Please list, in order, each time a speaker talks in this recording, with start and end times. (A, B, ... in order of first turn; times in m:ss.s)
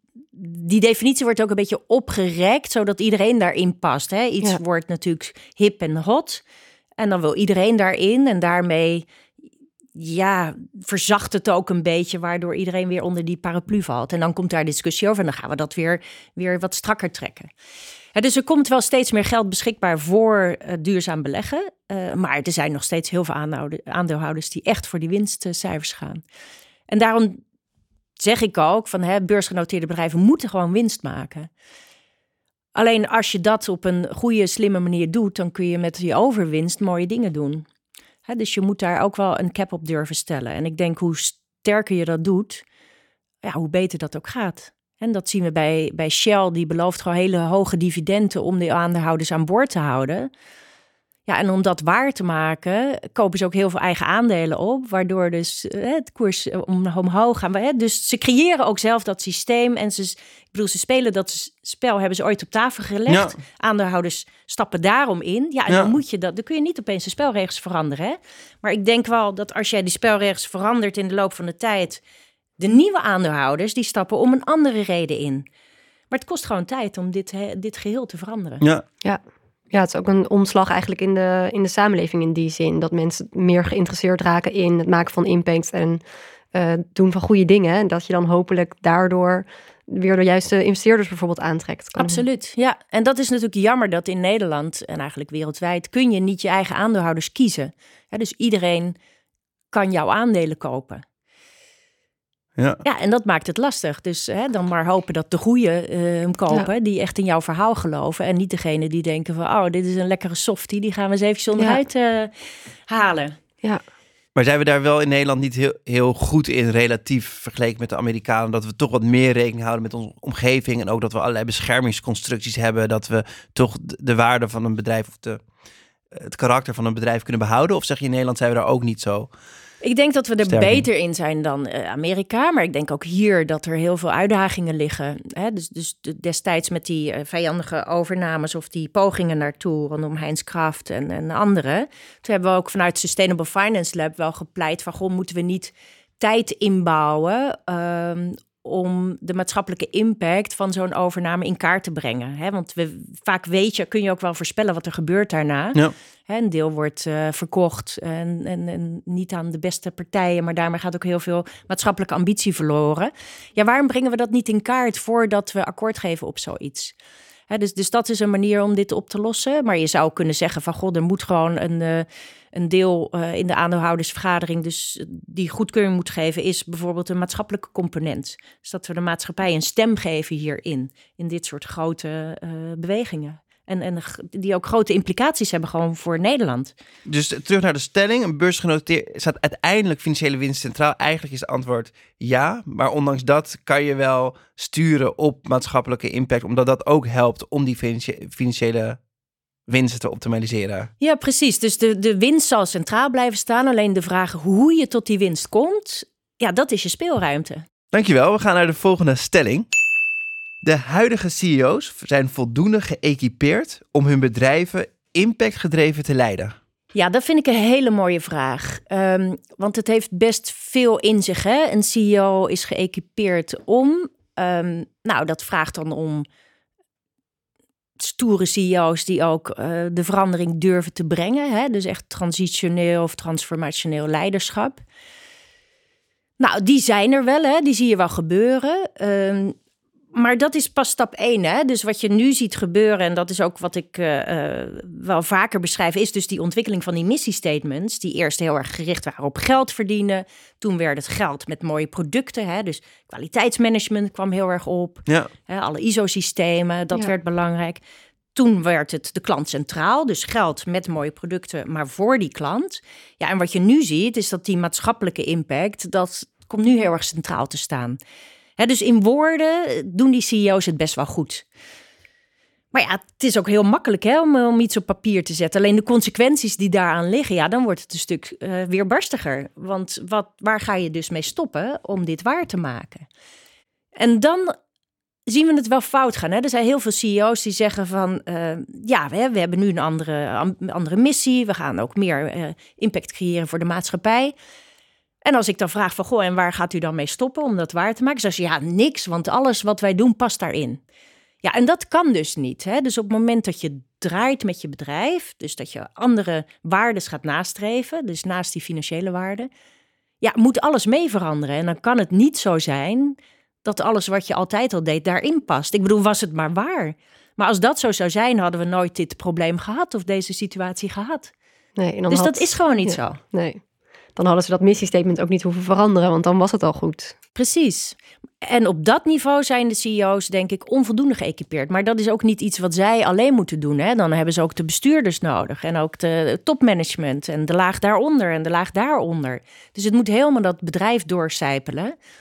0:00.3-0:06.4 A
0:07.0-0:09.1 A
0:10.0-0:17.5 A
0:18.2-0:26.2 A
0:26.9-0:27.4 A
0:28.2-0:31.5 A
0:32.8-0:37.7 A
0:38.3-0:42.6 A
0:43.4-0:50.3 A
0:51.3-1:12.0 A
1:03.1-1:03.4 B
1:12.6-1:15.5 A
1:16.1-1:18.6 A
1:19.7-1:26.0 C
1:26.5-1:32.2 C
1:32.0-1:39.0 A
1:39.7-1:41.0 A
1:42.6-1:42.8 B
1:42.8-1:52.3 A
1:52.9-1:53.4 A
1:54.4-2:05.4 B
2:06.1-2:09.3 B
2:09.8-2:47.0 A
2:10.4-2:10.8 B
2:47.5-3:06.7 A
3:07.1-3:19.0 B
3:19.7-3:20.9 B
3:21.0-3:27.6 A
3:27.9-3:29.7 B
3:30.6-3:36.6 B
3:36.9-3:46.3 A
3:48.0-3:54.8 A
3:56.4-3:59.6 A
4:00.1-4:17.8 A
4:18.3-4:28.0 A
4:28.6-4:31.5 A
4:32.7-4:43.1 A
4:44.0-4:44.6 A
4:45.3-4:54.3 A
4:55.2-5:00.8 A
5:01.4-5:09.5 A
5:10.2-5:21.3 A
5:21.8-5:23.6 C
5:22.1-5:23.2 A
5:24.2-5:27.2 C
5:27.4-5:42.0 A